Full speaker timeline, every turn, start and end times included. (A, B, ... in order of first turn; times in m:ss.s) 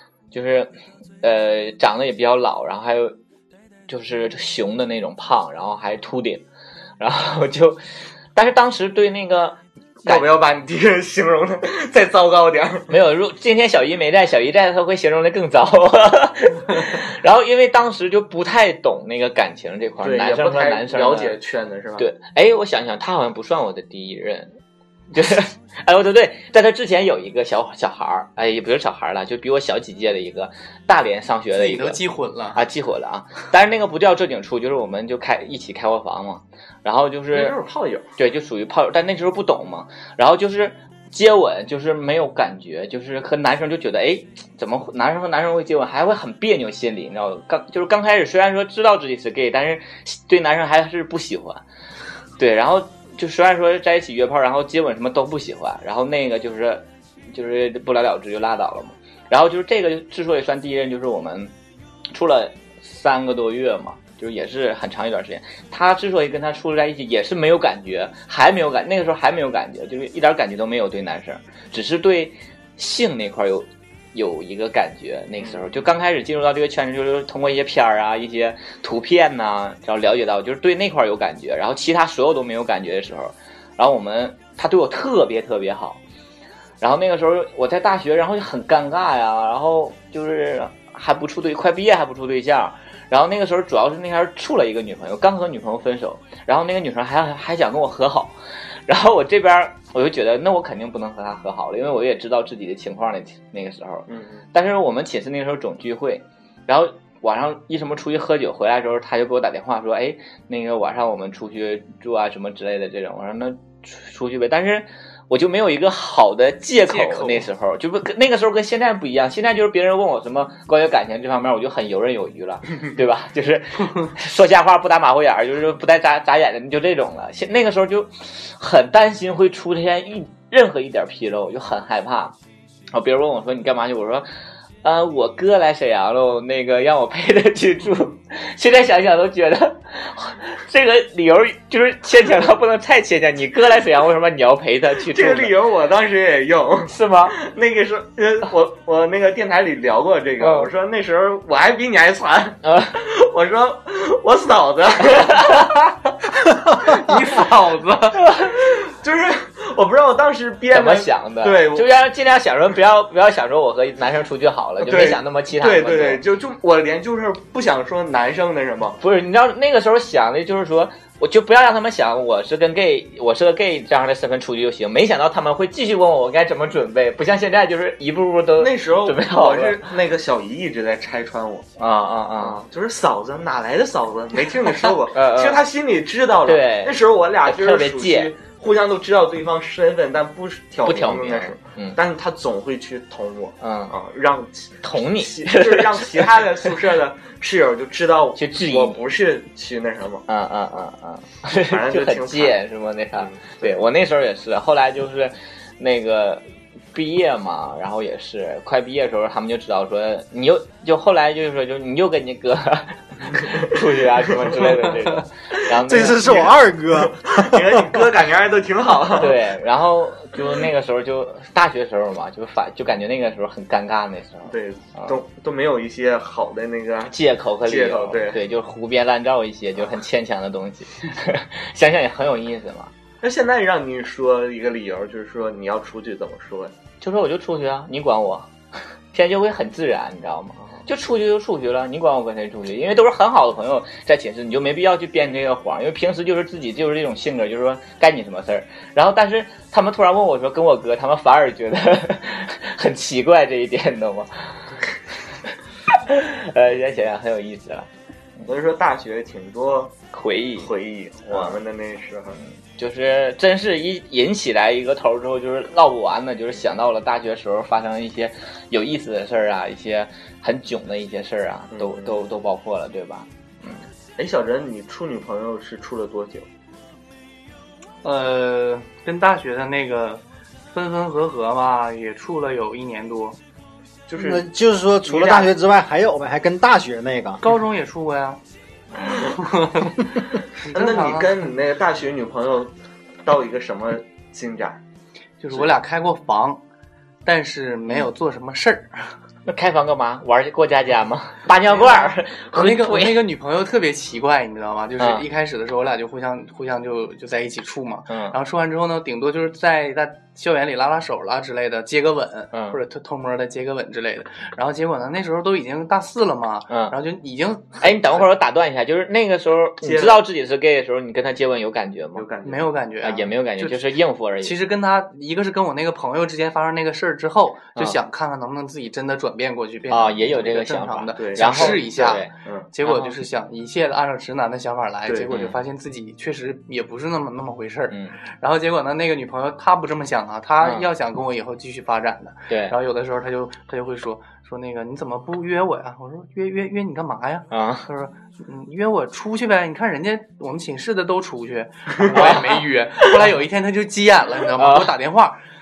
0:00.3-0:03.1 A
0:03.9-0:06.4 A
0:07.0-0:07.8 A
0:08.3-0:10.3 A
0:10.0-0:12.9 B
0:12.9-0:21.4 A
0:20.0-0:22.0 B
0:22.0-0:24.5 A
0:25.1-0:32.0 A
0:31.5-0:32.6 C
0:32.5-0:37.6 A
0:37.3-0:38.0 B
0:38.2-0:51.6 A
0:52.4-1:01.5 A
1:02.1-1:26.0 A
1:15.4-1:15.8 B
1:26.8-1:38.3 A
1:38.9-2:12.3 A
1:44.1-1:44.4 B
1:56.9-1:57.5 C
2:12.9-2:14.3 A
2:14.8-2:25.5 A
2:25.1-2:35.7 B
2:26.9-2:27.4 A
2:30.4-2:30.7 A
2:32.6-2:32.9 A
2:36.8-2:38.2 C
2:38.2-2:38.5 A
2:38.5-2:41.9 B
2:40.7-2:46.2 A
2:44.8-2:49.0 B
2:49.0-2:59.9 A
2:58.6-3:01.7 B
3:01.8-3:02.6 A
3:02.4-3:20.2 B
3:04.9-3:05.6 A
3:06.4-3:08.3 A
3:10.8-3:12.0 A
3:13.6-3:13.9 A
3:14.8-3:16.4 A
3:18.4-3:19.0 A
3:20.3-3:36.5 A
3:21.5-3:22.6 B
3:23.2-3:23.8 B
3:35.8-3:38.0 D
3:36.3-3:39.4 B
3:39.1-3:45.2 A
3:44.5-3:48.4 B
3:47.1-3:52.9 A
3:53.2-3:56.7 B
3:57.0-3:58.5 A
3:59.1-4:14.7 A
4:15.9-4:17.9 A
4:18.4-4:19.9 B
4:20.1-4:20.7 A
4:20.6-4:22.4 B
4:21.3-4:21.6 A
4:22.8-4:33.8 A
4:31.7-4:32.2 B
4:34.2-4:36.5 B
4:38.0-4:43.4 C
4:44.1-4:44.4 B
4:44.2-4:47.4 D
4:45.0-4:45.5 B
4:47.4-4:48.4 C
4:49.1-4:51.5 C
4:50.7-4:52.7 B
4:53.2-4:54.8 B
4:55.4-4:56.6 C
4:57.2-4:59.1 C
4:59.4-5:03.2 A
5:01.6-5:18.2 C
5:05.0-5:05.2 A
5:08.1-5:08.4 A
5:12.5-5:12.8 A
5:17.8-5:22.2 A
5:19.8-5:20.2 B
5:22.1-5:22.7 B
5:22.4-5:23.9 C
5:23.0-5:24.6 A
5:24.4-5:55.4 C
5:29.9-5:32.3 A
5:31.2-5:32.7 B
5:32.8-5:33.1 A
5:35.0-5:35.3 B
5:37.9-5:38.2 A
5:40.6-5:40.9 A
5:42.5-5:42.7 A
5:47.5-5:47.9 A
5:52.1-5:52.6 A
5:54.6-5:54.9 A